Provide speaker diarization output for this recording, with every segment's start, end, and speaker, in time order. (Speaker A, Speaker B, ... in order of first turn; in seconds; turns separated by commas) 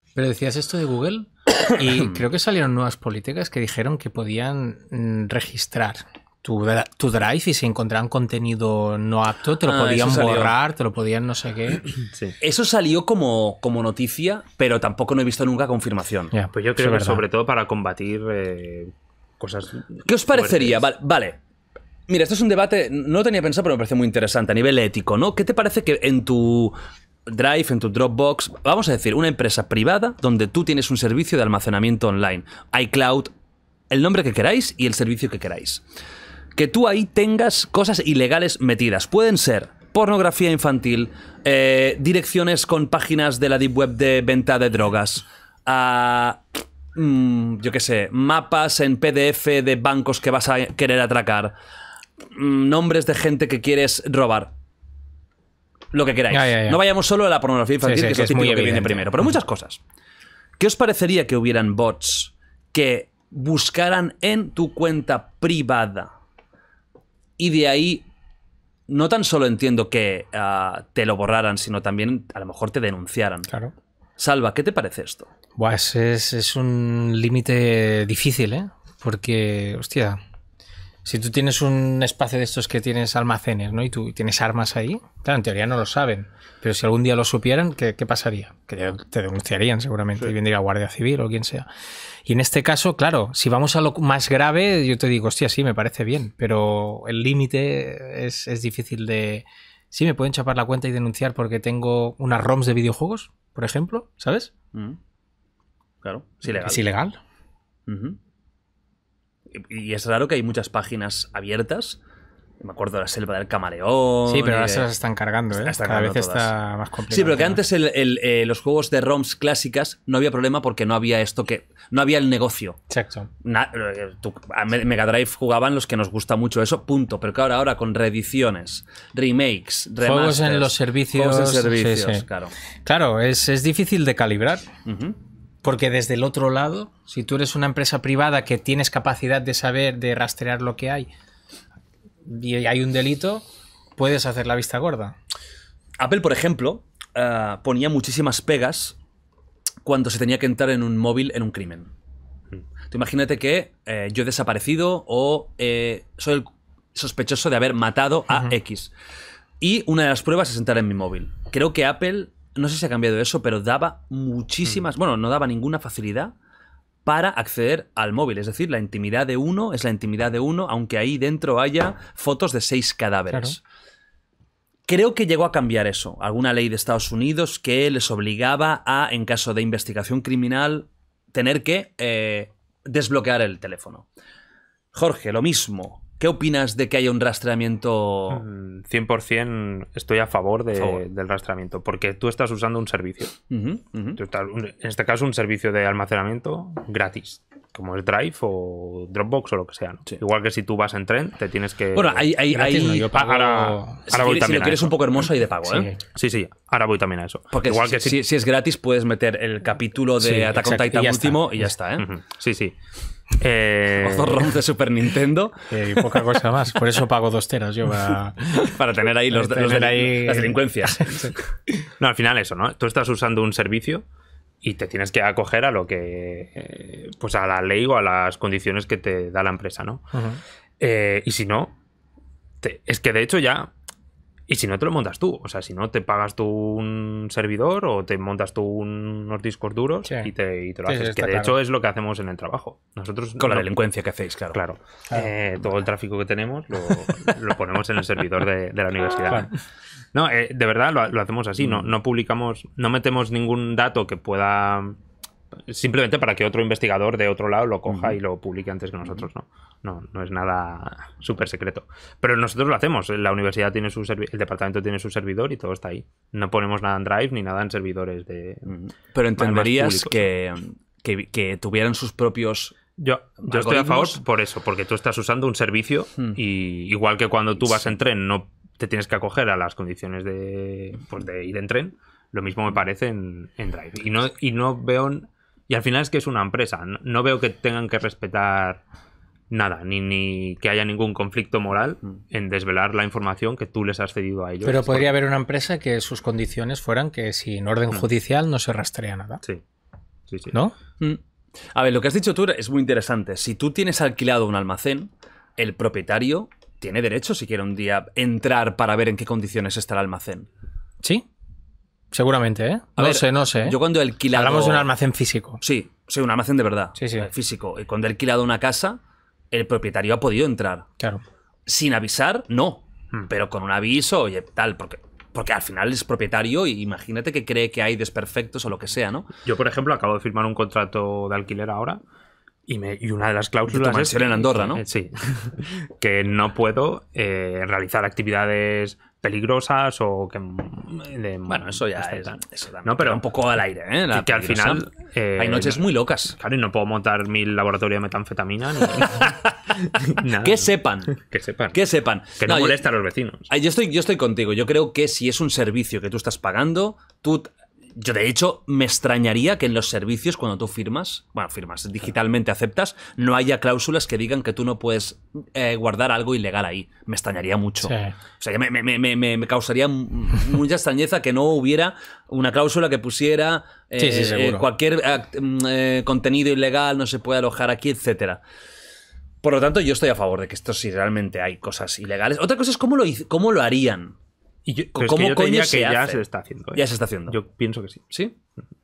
Speaker A: 0.1-11.9, Speaker B: 1.8-2.2, Speaker B: 9.6-10.5, Speaker C: 12.1-12.4, Speaker B: 12.4-16.3, Speaker A: 16.3-17.2, Speaker C: 16.5-20.9, Speaker B: 20.0-21.4, Speaker B: 22.1-33.3, Speaker B: 33.9-35.8, Speaker B: 36.5-51.5, Speaker B: 52.3-54.5, Speaker B: 55.9-59.8, Speaker A: 56.3-56.8, Speaker A: 57.8-59.1, Speaker B: 60.6-66.1, Speaker B: 67.4-68.0, Speaker B: 68.9-73.5, Speaker B: 74.2-75.3, Speaker A: 75.6-80.2, Speaker A: 81.0-91.7, Speaker A: 92.2-104.5, Speaker B: 106.0-106.8, Speaker A: 106.5-107.2, Speaker B: 107.9-108.2, Speaker B: 109.5-112.0, Speaker B: 112.6-114.9, Speaker A: 114.2-117.6, Speaker B: 115.5-116.5, Speaker B: 117.1-122.8, Speaker A: 122.9-123.3, Speaker B: 123.4-132.6, Speaker A: 130.0-132.3, Speaker A: 132.8-134.7, Speaker B: 134.8-135.2, Speaker A: 135.6-141.1, Speaker A: 142.2-143.4, Speaker A: 144.0-145.2, Speaker B: 146.0-149.0, Speaker B: 149.8-151.9, Speaker B: 152.9-158.9, Speaker B: 159.6-166.3, Speaker B: 167.1-173.6, Speaker A: 173.3-173.6, Speaker B: 174.9-184.1, Speaker B: 184.9-188.4, Speaker C: 188.3-193.4, Speaker B: 190.7-191.0, Speaker B: 193.5-194.2, Speaker C: 194.2-202.3, Speaker B: 201.9-203.2, Speaker A: 202.5-204.1, Speaker C: 203.1-205.0, Speaker B: 204.1-205.9, Speaker A: 205.7-206.0, Speaker C: 206.1-208.2, Speaker B: 207.5-212.1, Speaker A: 210.2-211.7, Speaker C: 212.0-212.8, Speaker C: 213.3-214.5, Speaker B: 214.0-215.6, Speaker A: 215.7-218.7, Speaker B: 218.6-221.4, Speaker A: 219.3-221.3, Speaker C: 222.0-224.1, Speaker C: 224.6-230.0, Speaker A: 230.1-230.4, Speaker C: 230.8-231.8, Speaker C: 232.6-233.7, Speaker C: 234.5-243.7, Speaker A: 240.1-240.3, Speaker A: 240.9-241.6, Speaker B: 243.4-244.6, Speaker C: 244.5-249.6, Speaker C: 250.1-255.0, Speaker B: 251.6-251.9, Speaker C: 255.7-268.7, Speaker B: 257.9-258.1, Speaker B: 268.7-272.8, Speaker C: 269.4-270.3, Speaker C: 272.9-288.8, Speaker B: 273.4-274.2, Speaker C: 289.5-295.1, Speaker A: 294.6-299.4, Speaker C: 300.3-300.6, Speaker B: 301.7-310.5, Speaker A: 312.1-313.8, Speaker B: 313.0-314.9, Speaker A: 314.3-315.6, Speaker B: 315.6-319.0, Speaker A: 316.9-317.3, Speaker B: 319.5-320.9, Speaker B: 321.7-329.3, Speaker C: 329.4-332.0, Speaker C: 332.7-343.2, Speaker B: 333.7-334.8, Speaker B: 341.5-346.3, Speaker C: 344.1-351.8, Speaker B: 350.4-351.2, Speaker B: 351.7-352.8, Speaker C: 352.4-353.5, Speaker B: 353.5-378.4, Speaker A: 367.8-368.1, Speaker A: 374.0-374.7, Speaker B: 379.4-384.1, Speaker C: 384.6-388.1, Speaker B: 384.9-387.4